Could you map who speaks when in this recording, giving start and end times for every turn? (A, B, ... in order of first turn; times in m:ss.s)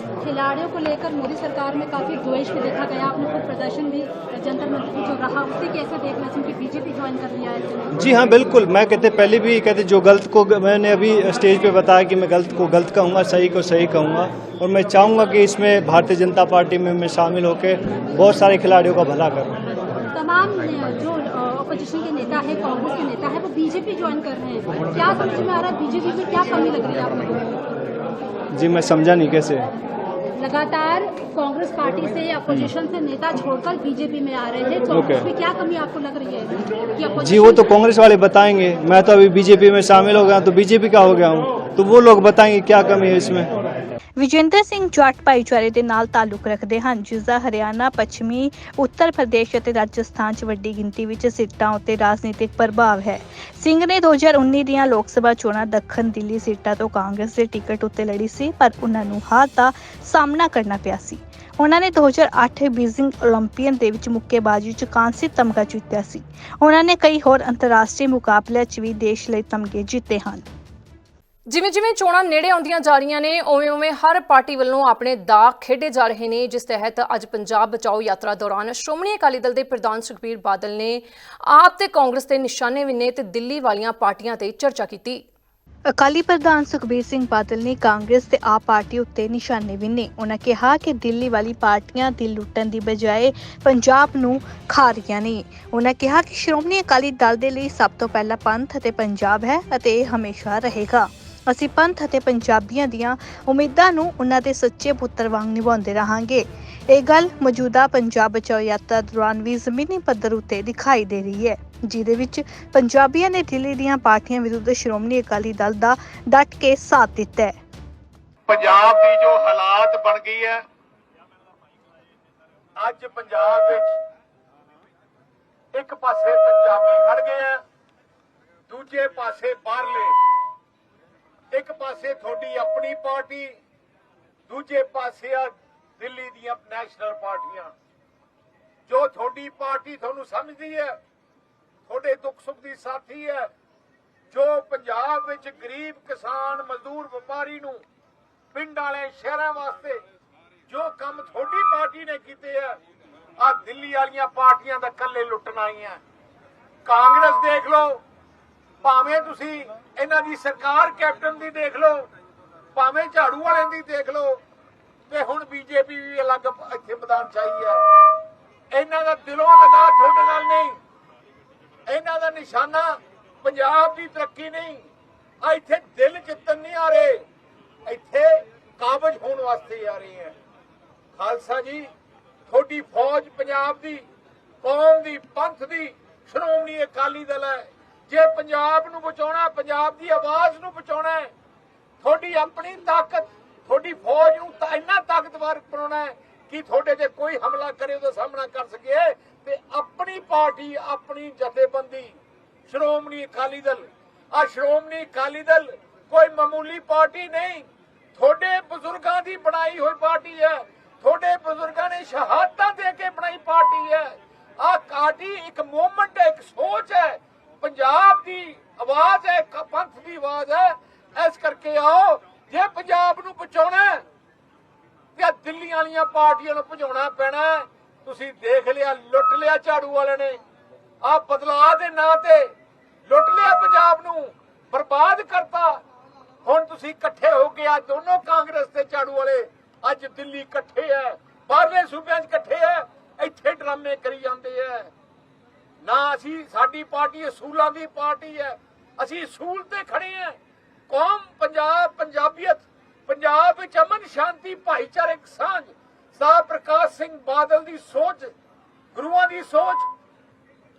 0:00.2-0:07.9 A
0:08.0-0:19.6 B
0:20.2-0:27.6 A
0:28.5-0:29.7 B
0:30.4-0:37.8 A
0:34.9-0:35.3 B
0:37.2-0:43.5 B
0:44.2-1:10.4 C
1:11.5-1:25.2 D
1:25.9-1:57.6 C
1:58.5-2:00.6 E
2:02.8-2:03.9 E
2:05.7-2:07.6 E
2:08.7-2:10.2 E
2:11.5-2:13.5 E
2:14.5-2:17.7 E
2:18.9-2:21.0 E
2:21.9-2:23.5 E
2:24.3-2:27.8 E
2:28.5-2:30.0 E
2:30.7-2:32.8 E
2:33.4-2:36.0 E
2:36.8-2:38.0 E
2:38.8-2:42.1 E
2:42.8-2:44.4 E
2:45.1-2:47.9 E
2:48.7-2:50.8 E
2:51.9-2:54.8 E
2:55.4-2:57.2 E
2:57.9-3:00.4 E
3:01.2-3:01.9 E
3:02.5-3:04.0 E
3:04.6-3:11.3 E
3:12.0-3:22.2 E
3:22.7-3:27.6 E
3:28.2-3:44.0 E
3:45.2-3:50.4 E
3:51.0-3:52.5 E
3:53.1-3:55.8 E
3:56.4-4:04.9 E
4:05.8-4:10.4 E
4:10.9-4:18.3 E
4:19.0-4:19.9 E